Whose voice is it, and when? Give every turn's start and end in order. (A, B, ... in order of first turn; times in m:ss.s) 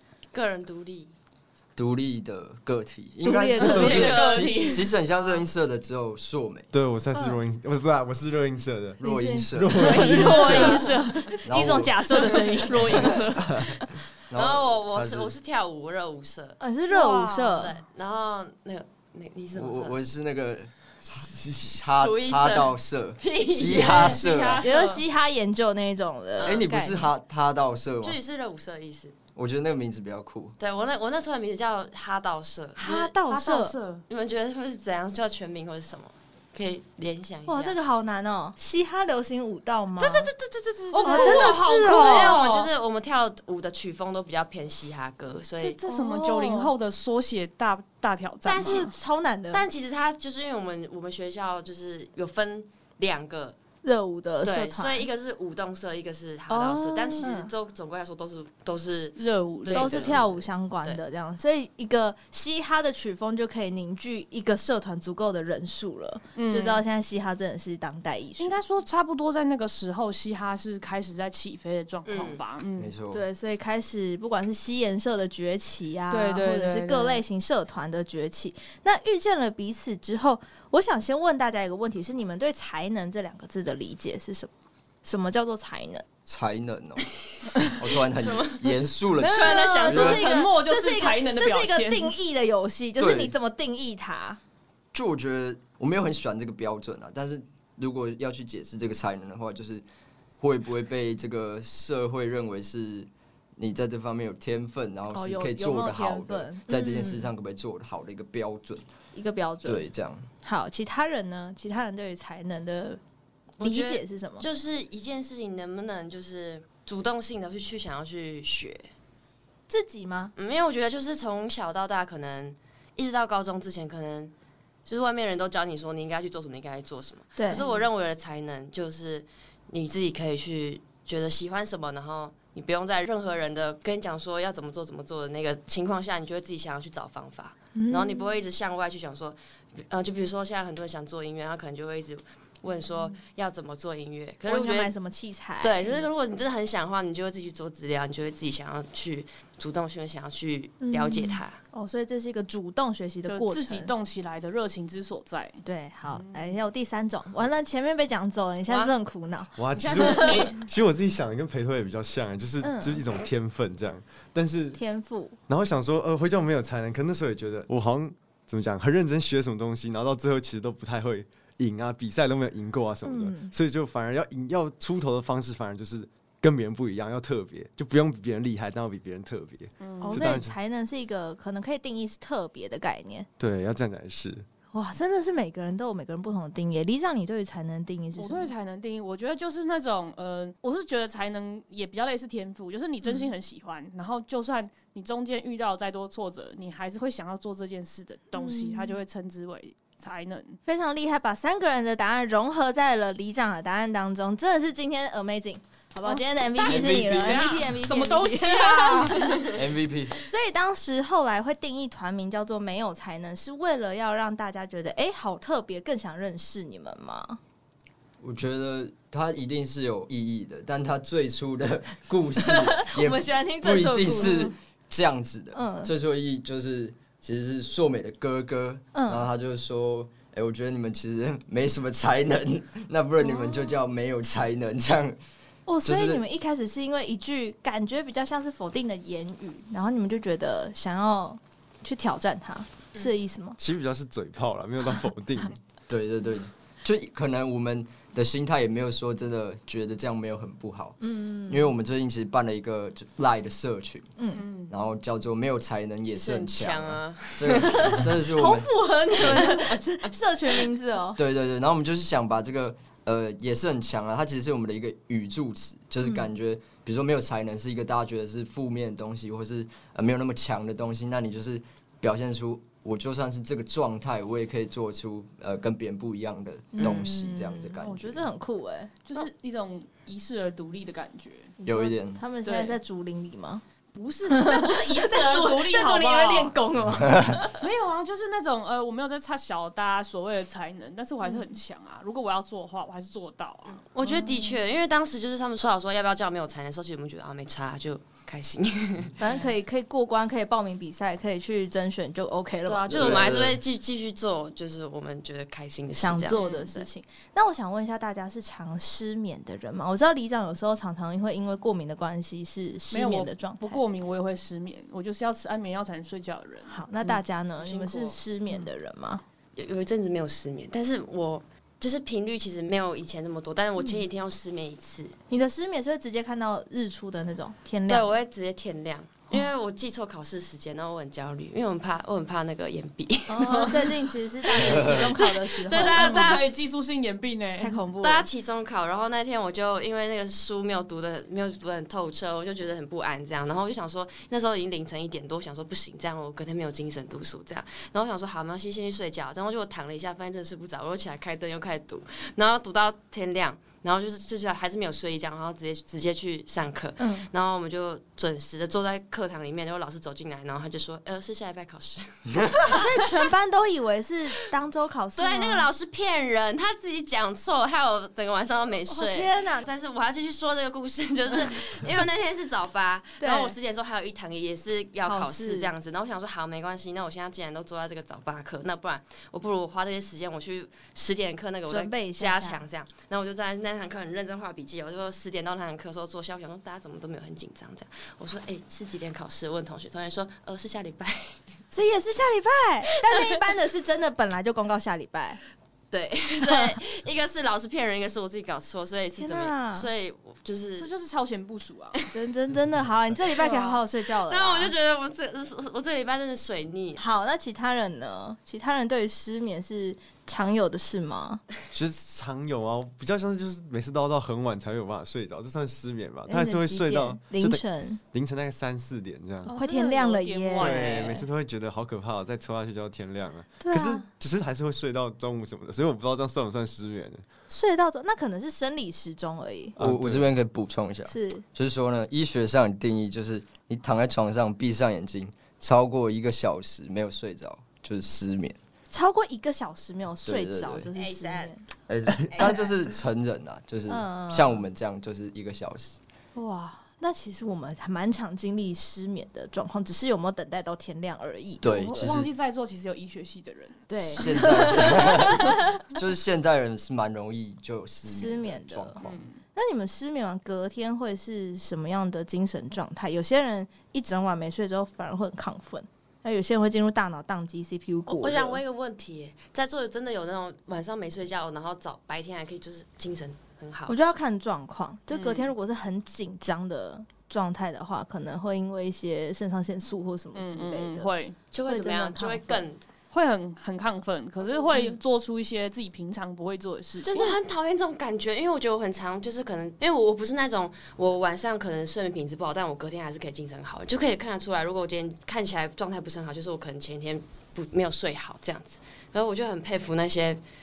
0:00.3-0:01.1 A
0:01.8-0:06.7 B
0:03.2-0:04.1 C
0:03.6-0:05.4 A
0:03.6-0:04.1 D
0:03.7-0:04.8 E
0:06.7-0:10.8 D
0:09.0-0:10.8 B
0:09.0-0:13.4 C
0:10.1-0:11.3 A
0:10.2-0:10.9 E
0:11.4-0:12.3 B
0:12.2-0:13.7 A
0:12.8-0:13.3 E
0:13.4-0:13.7 D
0:14.3-0:15.3 B
0:14.3-0:16.6 A
0:16.6-0:17.8 C
0:16.9-0:17.6 E
0:17.4-0:20.0 A
0:19.5-0:24.6 B
0:21.3-0:21.6 D
0:21.8-0:24.9 A
0:23.8-0:27.1 C
0:24.1-0:25.0 E
0:26.4-0:26.7 A
0:26.4-0:28.2 B
0:28.0-0:29.1 A
0:29.4-0:30.6 B
0:30.6-0:33.1 A
0:32.8-0:33.8 C
0:33.2-0:34.0 E
0:34.1-0:37.8 A
0:37.4-0:40.3 C
0:40.0-0:45.8 A
0:40.9-0:42.7 E
0:41.0-0:42.4 C
0:45.6-0:48.9 E
0:45.9-0:46.7 C
0:48.4-0:48.8 A
0:48.5-0:49.6 C
0:49.5-0:53.6 A
0:53.8-0:55.1 C
0:54.4-1:01.0 A
0:56.5-0:57.5 C
0:56.5-0:57.5 E
0:59.2-1:00.1 E
0:59.7-1:08.6 C
1:06.3-1:06.8 E
1:08.4-1:12.9 E
1:12.0-1:12.4 A
1:12.8-1:13.2 B
1:13.1-1:24.5 C
1:16.1-1:17.2 E
1:25.0-1:26.0 C
1:26.2-1:27.1 B
1:27.6-1:30.2 B
1:28.1-1:30.3 A
1:29.2-1:34.4 C
1:29.8-1:32.1 E
1:33.0-1:33.3 B
1:34.9-1:39.8 B
1:40.4-1:48.8 B
1:45.1-1:47.3 C
1:49.1-1:49.8 C
1:49.6-1:50.3 B
1:50.4-1:53.0 C
1:53.6-1:58.9 A
1:53.6-1:54.5 C
1:59.7-2:00.3 C
2:00.4-2:04.3 A
2:04.8-2:19.4 A
2:07.4-2:07.6 C
2:07.5-2:07.8 E
2:17.7-2:18.3 C
2:19.9-2:24.9 A
2:24.5-2:25.8 C
2:25.6-2:31.6 A
2:30.8-2:33.9 C
2:33.2-2:36.5 E
2:35.6-2:40.5 C
2:38.7-2:38.9 A
2:39.6-2:44.8 D
2:39.8-2:40.6 E
2:39.8-2:40.5 A
2:42.6-2:43.0 C
2:44.7-2:45.4 C
2:45.5-3:00.5 D
2:53.0-2:53.5 C
2:59.8-3:00.3 E
3:00.0-3:03.3 C
3:03.4-3:04.4 D
3:04.7-3:08.5 C
3:08.2-3:20.6 E
3:18.3-3:19.0 C
3:20.7-3:29.6 C
3:26.0-3:29.7 E
3:26.6-3:27.6 B
3:29.5-3:30.2 B
3:30.2-3:37.4 C
3:38.2-3:55.2 B
3:42.4-3:44.5 C
3:44.1-3:44.5 E
3:45.5-3:45.9 C
3:48.9-3:49.3 C
3:53.2-3:53.8 C
3:55.7-4:03.6 C
3:55.8-3:56.2 B
4:03.6-4:05.5 D
4:05.9-4:14.1 B
4:11.0-4:11.7 C
4:14.2-4:14.4 C
4:14.3-4:14.7 E
4:14.7-4:19.5 B
4:16.1-4:18.1 A
4:17.7-4:21.2 C
4:19.2-4:20.1 A
4:21.2-4:38.2 B
4:36.8-4:39.0 C
4:39.1-4:41.5 E
4:41.6-4:43.6 C
4:41.6-4:42.2 B
4:42.4-4:42.8 E
4:43.9-4:46.6 E
4:44.3-4:47.6 C
4:47.0-4:47.4 B
4:47.6-4:53.8 E
4:53.8-4:59.2 A
4:59.2-5:03.3 C
5:02.6-5:06.9 A
5:02.9-5:03.6 B
5:06.0-5:13.8 C
5:06.3-5:06.6 E
5:12.9-5:16.9 E
5:16.7-5:19.2 C
5:17.6-5:18.2 A
5:19.6-5:25.1 A
5:25.3-5:28.1 C
5:27.9-5:33.9 A
5:33.3-5:36.4 C
5:34.5-5:36.5 A
5:34.6-5:35.1 B
5:35.7-5:37.8 E
5:37.6-5:38.3 C
5:38.0-6:03.2 A
5:57.0-5:57.3 C
6:02.7-6:05.7 C
6:05.2-6:31.4 A
6:08.9-6:09.7 C
6:13.2-6:13.6 C
6:15.0-6:15.7 C
6:21.7-6:22.6 C
6:31.7-6:35.4 C
6:35.9-6:40.9 A
6:36.4-6:36.8 C
6:39.2-6:39.9 C
6:40.8-6:42.0 E
6:42.1-6:44.7 C
6:43.3-6:47.0 A
6:47.0-6:51.4 C
6:51.7-6:59.5 D
6:56.3-6:58.0 C
6:59.4-7:01.2 E
6:59.5-7:01.0 C
7:00.6-7:07.2 D
7:03.6-7:04.1 C
7:07.5-7:09.8 C
7:09.8-7:10.3 D
7:09.8-7:18.6 B
7:11.1-7:11.4 C
7:18.9-7:21.6 C
7:20.2-7:20.9 B
7:20.9-7:21.5 A
7:21.9-7:26.0 B
7:22.3-7:22.7 A
7:23.9-7:24.6 C
7:26.4-7:32.1 C
7:31.6-7:32.3 B
7:31.6-7:35.4 E
7:33.9-7:35.8 C
7:34.1-7:39.2 B
7:38.0-7:39.0 C
7:39.0-7:39.4 E
7:39.5-7:48.6 C
7:48.1-7:54.0 A
7:53.9-8:01.1 C
7:55.1-7:55.5 E
8:00.3-8:01.4 E
8:01.5-8:02.8 A
8:01.7-8:02.6 C
8:03.1-8:07.4 E
8:04.7-8:05.0 C
8:07.0-8:20.4 A